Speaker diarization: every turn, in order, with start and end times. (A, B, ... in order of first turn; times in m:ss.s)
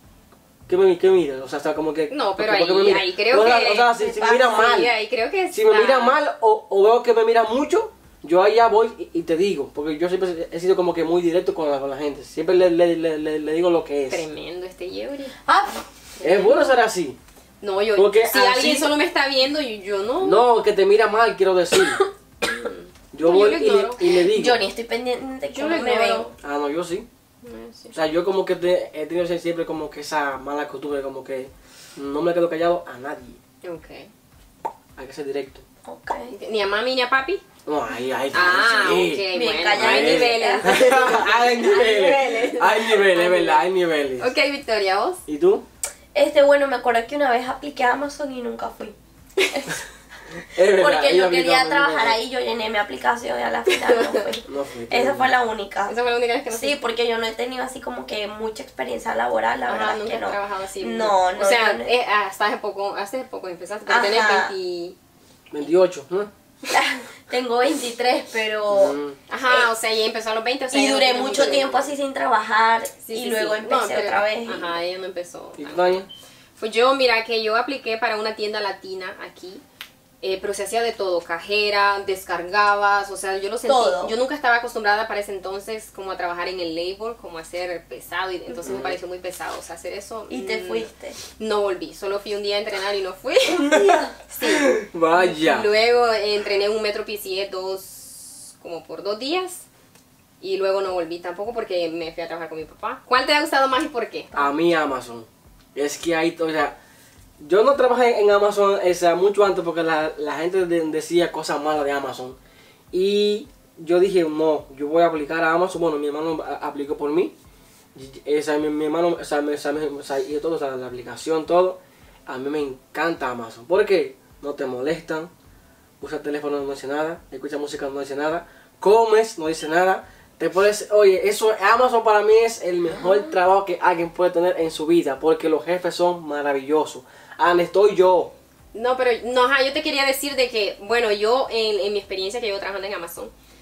0:00.7-0:04.9 A
0:02.1-0:06.2 B
0:04.0-0:04.8 C
0:05.5-0:14.2 A
0:14.1-0:15.4 B
0:15.4-0:15.8 C
0:16.2-0:16.7 B
0:16.2-0:17.2 A
0:17.6-0:20.4 B
0:18.0-0:18.9 A
0:20.2-0:22.0 A
0:22.4-0:24.0 B
0:23.1-0:24.6 A
0:24.1-0:26.3 C
0:25.5-0:26.3 B
0:26.4-0:27.0 A
0:27.4-0:27.9 B
0:27.9-0:33.4 A
0:33.6-0:34.1 B
0:35.0-0:35.6 A
0:35.8-0:36.3 C
0:36.3-0:37.4 B
0:37.6-0:44.3 A
0:38.3-0:43.6 B
0:38.6-0:42.2 C
0:44.2-0:45.2 B
0:45.3-0:45.6 A
0:46.1-0:48.9 C
0:49.5-0:49.8 C
0:50.4-0:52.2 A
0:50.6-0:56.0 C
0:53.7-0:54.3 B
0:54.5-0:55.3 A
0:55.9-0:56.8 B
0:56.5-1:01.9 C
0:59.7-1:05.0 B
1:03.9-1:04.5 C
1:05.5-1:06.3 A
1:06.7-1:09.0 C
1:08.7-1:09.2 A
1:09.3-1:11.9 B
1:10.7-1:14.7 C
1:13.0-1:16.0 B
1:15.6-1:16.1 A
1:16.6-1:19.6 B
1:20.2-1:33.7 B
1:23.6-1:24.1 C
1:28.6-1:29.0 A
1:30.3-1:31.2 C
1:33.5-1:34.2 C
1:33.7-1:35.7 A
1:34.3-1:39.6 B
1:40.4-1:44.5 B
1:44.3-1:46.8 A
1:47.4-1:52.4 A
1:52.9-1:57.3 A
1:57.9-2:05.3 A
2:06.0-2:18.3 A
2:13.0-2:13.3 C
2:18.7-2:23.3 B